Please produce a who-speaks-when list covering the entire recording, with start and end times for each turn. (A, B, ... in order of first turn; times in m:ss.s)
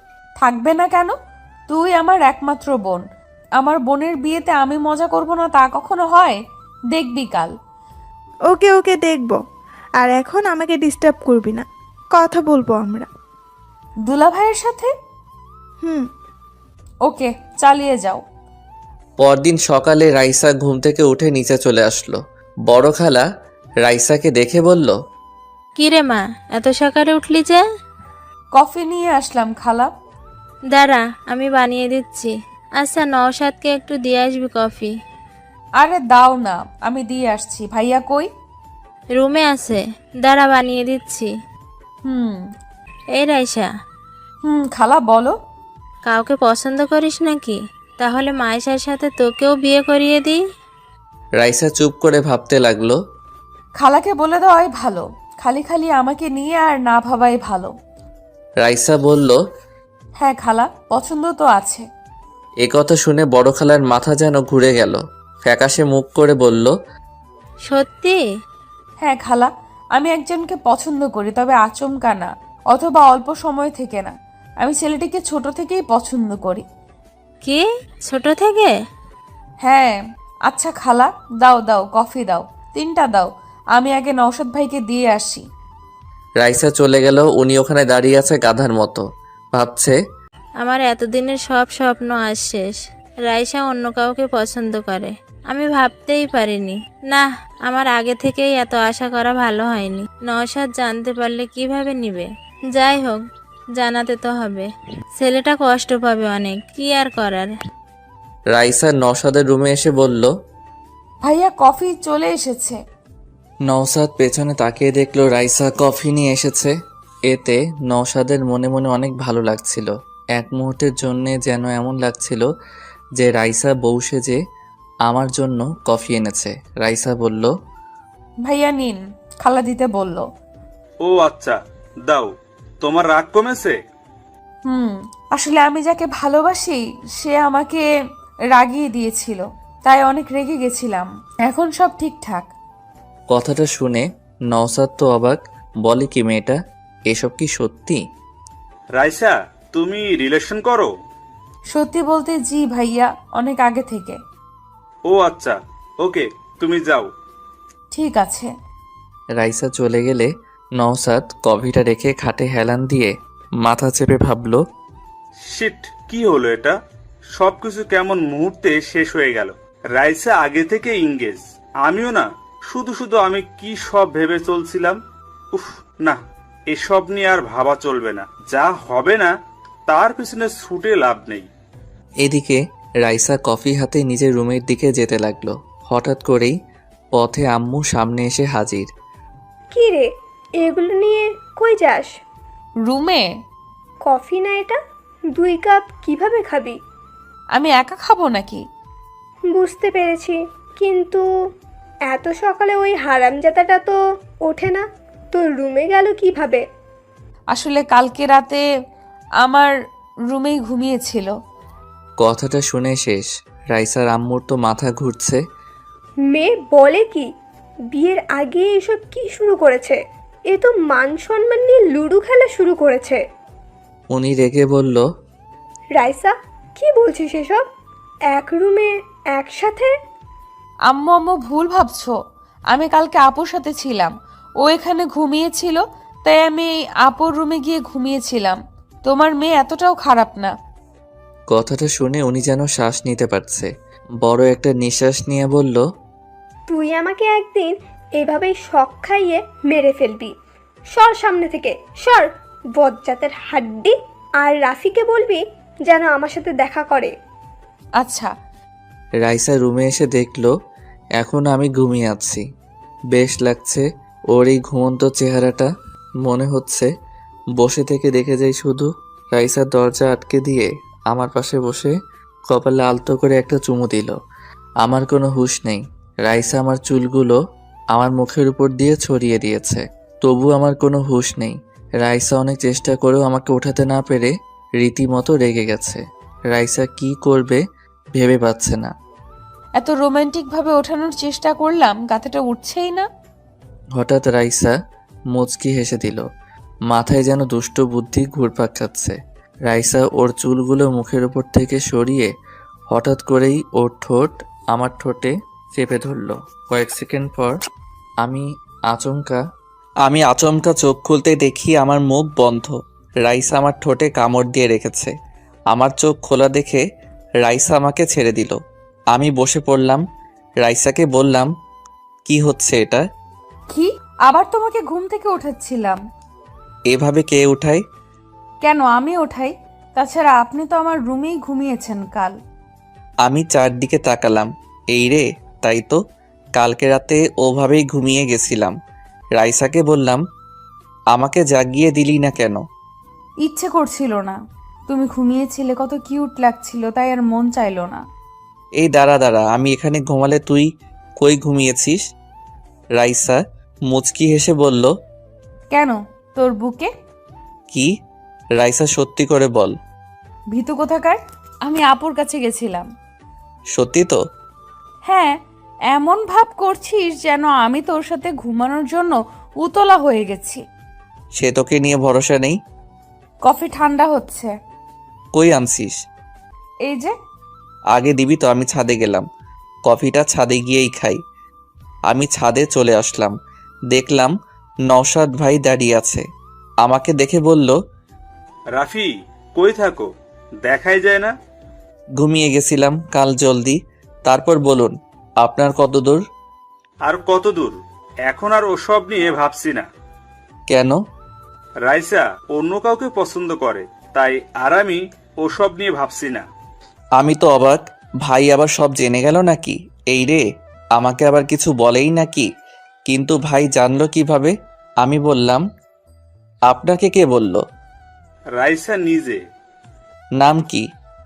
0:00.4-0:01.1 A
0:01.7-0:03.0 A
0:03.6-0:06.4 A
0:06.9-0:07.5 A
0:08.5-0:09.4 B
0:10.0-0:13.1 B
0:14.1-0:14.9 A
0:15.8-0:16.1 B
0:17.1-0:18.2 A
0:19.2-0:23.3 C
0:23.8-0:25.0 C
0:25.8-0:27.6 D
0:28.5-0:29.9 A
0:30.7-0:34.9 D
0:35.8-0:38.3 A
0:39.1-0:41.3 D
0:42.0-0:42.4 A
0:43.1-0:43.7 D
0:44.4-0:45.3 A
0:46.0-0:50.4 D
0:51.4-0:53.0 C
0:53.8-0:57.7 A
0:58.6-0:59.4 C
1:00.2-1:01.8 A
1:02.6-1:06.8 C
1:07.6-1:08.2 D
1:09.0-1:16.6 A
1:17.4-1:18.8 D
1:19.6-1:20.0 A
1:20.5-1:25.4 A
1:26.4-1:30.0 C
1:30.6-1:43.2 D
1:43.8-1:47.5 D
1:48.5-1:50.3 C
1:51.2-1:52.8 A
1:53.7-1:56.7 C
1:57.3-2:02.5 C
2:03.2-2:04.4 C
2:05.1-2:07.5 C
2:08.5-2:10.2 A
2:11.0-2:13.8 E
2:14.7-2:17.8 A
2:18.6-2:22.5 A
2:23.3-2:28.0 C
2:29.0-2:30.9 E
2:31.7-2:34.2 A
2:35.1-2:37.1 E
2:37.9-2:38.5 A
2:39.4-2:44.6 C
2:45.5-2:46.8 E
2:47.4-2:55.0 E
2:55.5-2:56.2 E
2:56.7-2:59.3 E
2:59.9-3:01.4 E
3:02.2-3:06.6 C
3:07.1-3:08.9 C
3:09.7-3:12.1 F
3:12.9-3:13.3 A
3:14.0-3:14.8 F
3:15.3-3:16.8 F
3:17.6-3:18.6 A
3:19.5-3:21.2 F
3:22.1-3:26.6 F
3:27.5-3:28.6 A
3:29.4-3:29.7 A
3:30.3-3:31.3 A
3:32.2-3:35.4 C
3:36.3-3:37.3 F
3:37.9-3:43.2 F
3:44.1-3:45.1 C
3:46.0-3:47.6 F
3:48.3-3:49.9 F
3:50.9-3:52.1 A
3:52.7-4:00.5 A
4:01.5-4:03.7 C
4:04.2-4:05.8 C
4:06.7-4:10.3 F
4:10.9-4:17.1 F
4:18.0-4:18.3 A
4:19.2-4:20.5 C
4:21.2-4:22.4 C
4:23.1-4:25.7 C
4:26.2-4:26.9 C
4:27.6-4:31.9 C
4:32.5-4:34.2 C
4:34.8-4:37.4 C
4:37.9-4:46.0 C
4:46.5-4:47.6 C
4:48.2-4:48.9 C
4:49.8-4:53.0 A
4:54.0-4:54.7 C
4:55.4-4:56.2 C
4:56.9-4:59.2 C
4:59.7-5:02.3 C
5:02.9-5:07.6 C
5:08.2-5:09.4 C
5:10.0-5:12.7 C
5:13.2-5:15.1 C
5:15.7-5:16.8 C
5:17.4-5:18.6 C
5:19.1-5:20.0 C
5:20.6-5:21.5 C
5:22.2-5:23.0 C
5:23.7-5:26.0 A
5:26.9-5:27.8 C
5:28.6-5:32.4 A
5:33.2-5:36.0 C
5:36.6-5:38.8 C
5:39.4-5:40.2 C
5:41.1-5:42.6 C
5:43.4-5:44.4 A
5:44.9-5:48.0 A
5:48.8-5:50.7 C
5:51.2-5:52.0 C
5:53.0-5:54.9 C
5:55.7-5:56.9 A
5:58.6-5:59.8 C
6:00.5-6:02.9 A
6:03.8-6:04.2 C
6:05.1-6:05.3 A
6:05.9-6:10.6 A
6:11.4-6:12.6 C
6:13.4-6:14.5 A
6:15.4-6:16.0 C
6:16.9-6:17.1 A
6:17.9-6:19.2 C
6:19.9-6:21.2 C
6:22.1-6:23.4 C
6:23.9-6:24.3 C
6:24.9-6:26.2 C
6:26.8-6:27.8 C
6:28.8-6:30.1 E
6:30.6-6:31.3 E
6:32.2-6:36.2 C
6:37.0-6:39.8 E
6:40.7-6:41.0 C
6:41.9-6:46.5 E
6:47.2-6:50.4 C
6:51.0-6:52.5 C
6:53.1-6:55.6 C
6:56.7-6:57.6 C
6:58.6-6:59.4 E
7:00.4-7:00.8 C